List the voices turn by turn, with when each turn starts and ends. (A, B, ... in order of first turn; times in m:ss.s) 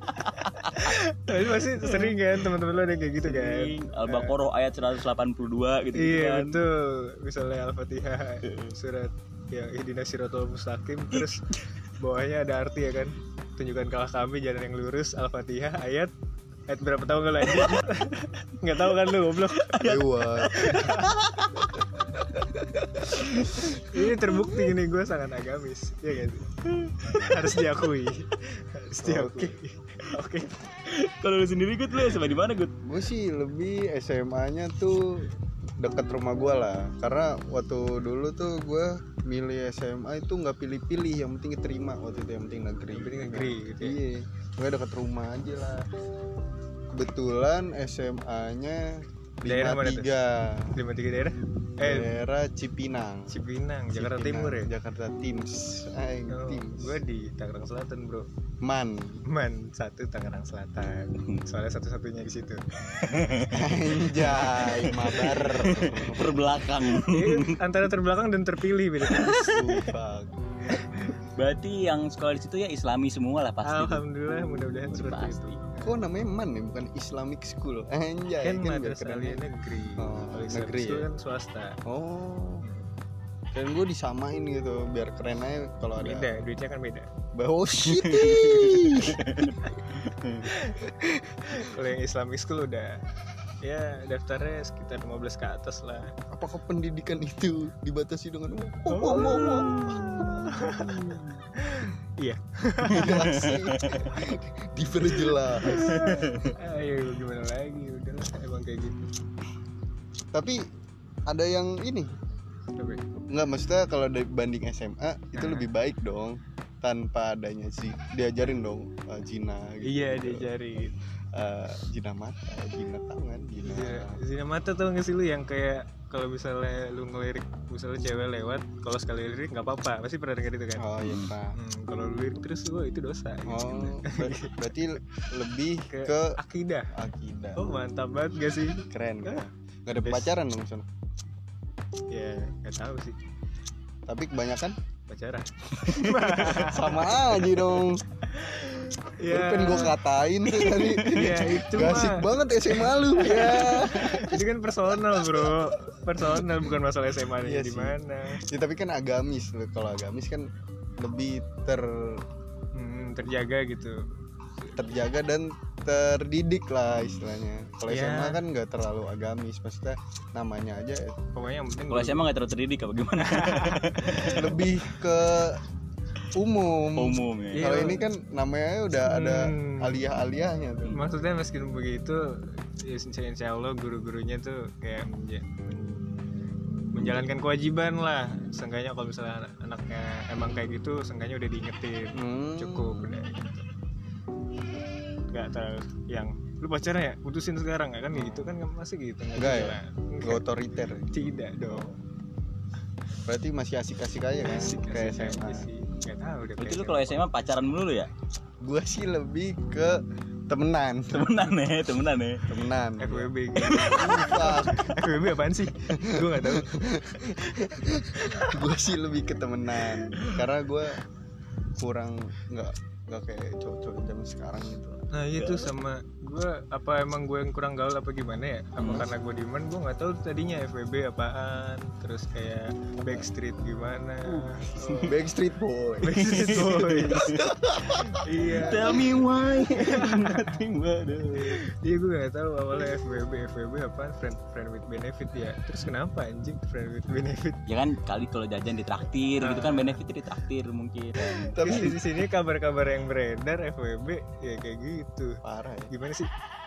0:00.2-0:00.9 A
0:00.4-0:04.4 B
0:01.8-0:02.2 A
0:03.2-0:06.6 A
0:06.0-0:11.4 B
0:08.5-0:08.7 A
0:11.1-0:11.6 A
0:12.0-0:16.1 B
0:16.7-0:19.8 B
0:17.4-0:17.8 A
0:19.4-0:21.8 A
0:19.8-0:20.7 C
0:20.5-0:21.1 B
0:23.1-0:30.6 B
0:23.2-0:23.8 A
0:26.8-0:27.4 A
0:29.0-0:29.6 C
0:30.9-0:32.7 A
0:32.8-0:45.9 C
0:42.9-0:44.0 B
0:46.9-0:50.8 C
0:49.4-0:50.1 B
0:50.8-0:52.1 B
0:51.8-0:53.4 C
0:53.3-0:54.7 B
0:53.9-0:57.0 C
0:56.3-0:58.3 B
0:58.6-0:59.2 C
0:59.3-1:03.2 B
1:02.9-1:07.6 A
1:03.5-1:06.4 C
1:07.0-1:09.6 B
1:09.1-1:09.7 A
1:09.4-1:10.4 C
1:10.8-1:14.0 A
1:13.6-1:15.9 B
1:14.9-1:15.6 A
1:15.8-1:19.4 C
1:18.4-1:21.8 B
1:20.0-1:21.1 C
1:21.8-1:22.6 C
1:23.5-1:26.4 C
1:26.0-1:27.1 B
1:27.3-1:29.3 C
1:27.9-1:30.5 A
1:30.4-1:30.8 B
1:30.8-1:31.6 C
1:31.5-1:33.0 B
1:33.6-1:36.1 B
1:36.3-1:41.2 C
1:38.9-1:39.6 B
1:39.1-1:41.4 A
1:40.4-1:41.0 B
1:41.6-1:43.5 B
1:42.9-1:44.1 A
1:42.9-1:46.1 C
1:45.6-1:49.1 B
1:45.6-1:46.5 A
1:50.3-1:50.7 C
1:51.3-1:52.1 C
1:52.8-1:53.0 B
1:53.3-2:00.5 C
1:55.4-1:55.7 B
1:59.8-2:01.0 B
2:01.3-2:04.2 C
2:03.6-2:10.9 B
2:10.8-2:11.6 C
2:11.0-2:11.3 A
2:11.5-2:14.8 B
2:13.5-2:16.4 C
2:15.9-2:16.9 B
2:16.9-2:17.6 C
2:17.6-2:19.4 B
2:18.9-2:20.9 C
2:20.0-2:20.4 B
2:22.1-2:23.2 B
2:24.1-2:24.8 C
2:25.1-2:27.2 B
2:25.8-2:28.0 C
2:28.3-2:30.0 B
2:29.2-2:35.7 C
2:30.5-2:38.4 B
2:36.3-2:36.7 C
2:37.4-2:42.3 C
2:42.8-2:44.1 B
2:44.7-2:51.2 C
2:47.9-2:48.4 B
2:51.3-2:52.3 B
2:51.9-2:54.6 A
2:53.2-2:54.4 B
2:54.2-2:55.6 C
2:56.3-3:00.9 C
2:57.0-2:57.7 A
2:57.6-2:58.0 B
2:59.0-3:00.0 B
3:00.9-3:06.0 B
3:06.9-3:13.7 B
3:12.1-3:13.2 C
3:15.3-3:20.4 B
3:18.1-3:18.6 C
3:19.4-3:21.9 C
3:21.1-3:22.0 B
3:23.2-3:25.7 C
3:24.4-3:27.2 B
3:26.6-3:28.1 A
3:28.6-3:31.3 C
3:31.1-3:32.4 A
3:32.5-3:35.0 C
3:33.0-3:38.6 B
3:35.9-3:41.0 C
3:41.8-3:45.6 C
3:45.1-3:55.2 B
3:48.8-3:49.1 A
3:54.6-3:59.0 C
3:56.0-3:57.4 B
3:56.2-3:57.4 A
3:57.9-4:00.6 B
3:58.5-4:01.6 A
4:01.4-4:07.6 B
4:07.7-4:11.5 A
4:09.4-4:10.0 B
4:11.2-4:16.3 B
4:11.3-4:12.0 C
4:15.4-4:15.9 C